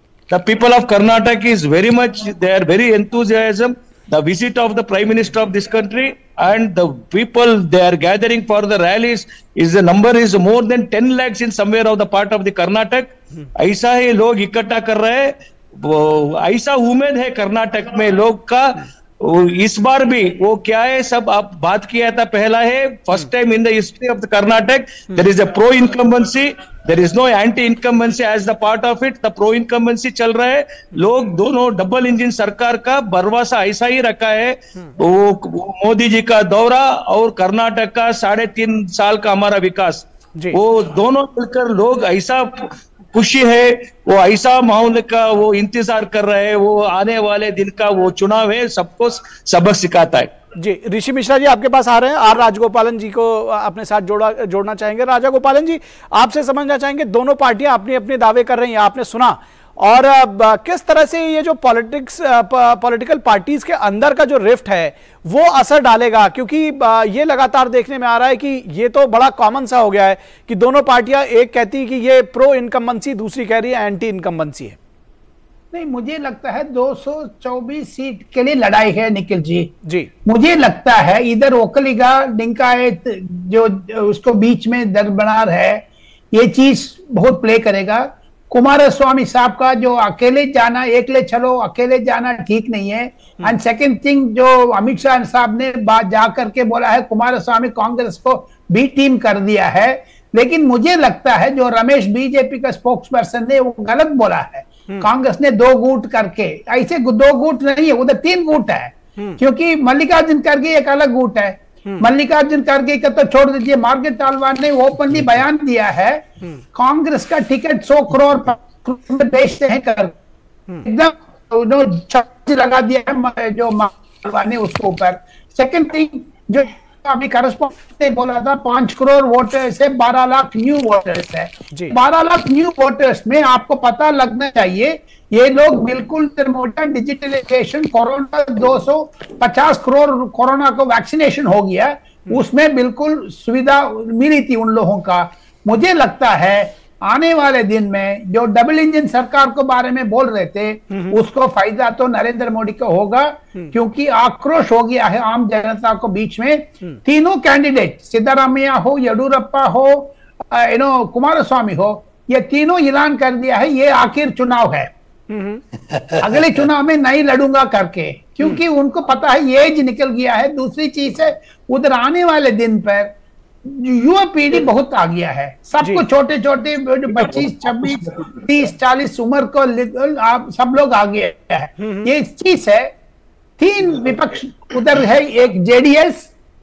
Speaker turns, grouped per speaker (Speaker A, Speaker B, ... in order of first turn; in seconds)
Speaker A: 0.3-50.3
Speaker B: 50.6-74.8, 79.8-80.1, 165.3-165.6, 181.8-182.1
Speaker C: 75.7-79.7, 80.2-120.2, 120.8-164.9, 166.2-182.9, 183.6-186.3